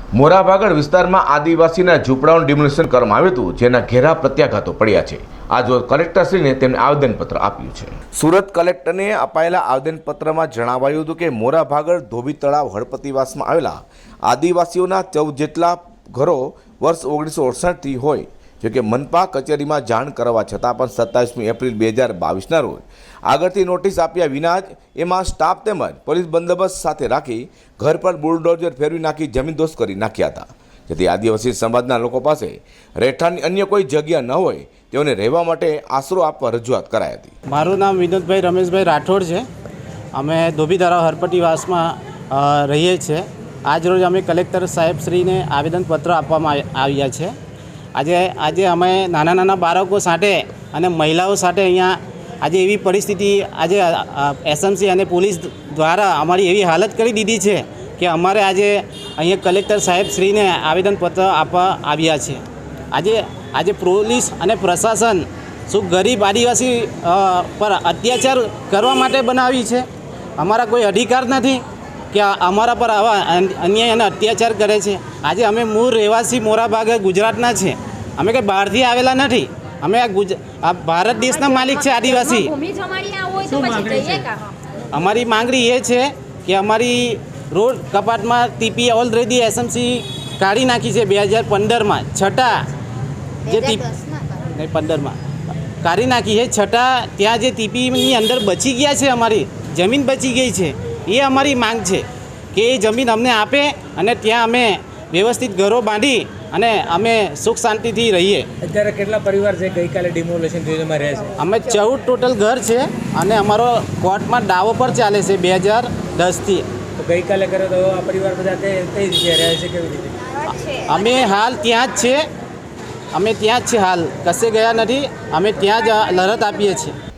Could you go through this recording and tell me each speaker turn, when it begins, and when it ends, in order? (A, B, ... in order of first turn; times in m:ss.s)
0:00.1-0:37.3 A
0:37.5-0:39.5 B
0:40.1-0:47.3 B
0:47.9-1:09.8 B
1:10.4-1:22.6 B
1:21.6-1:24.4 C
1:23.5-1:24.3 D
1:24.9-1:32.7 B
1:33.4-1:35.2 B
1:35.8-1:48.5 B
1:48.6-1:51.4 D
1:51.4-1:56.6 B
1:57.0-2:00.4 D
2:00.5-2:02.2 B
2:03.1-2:06.9 B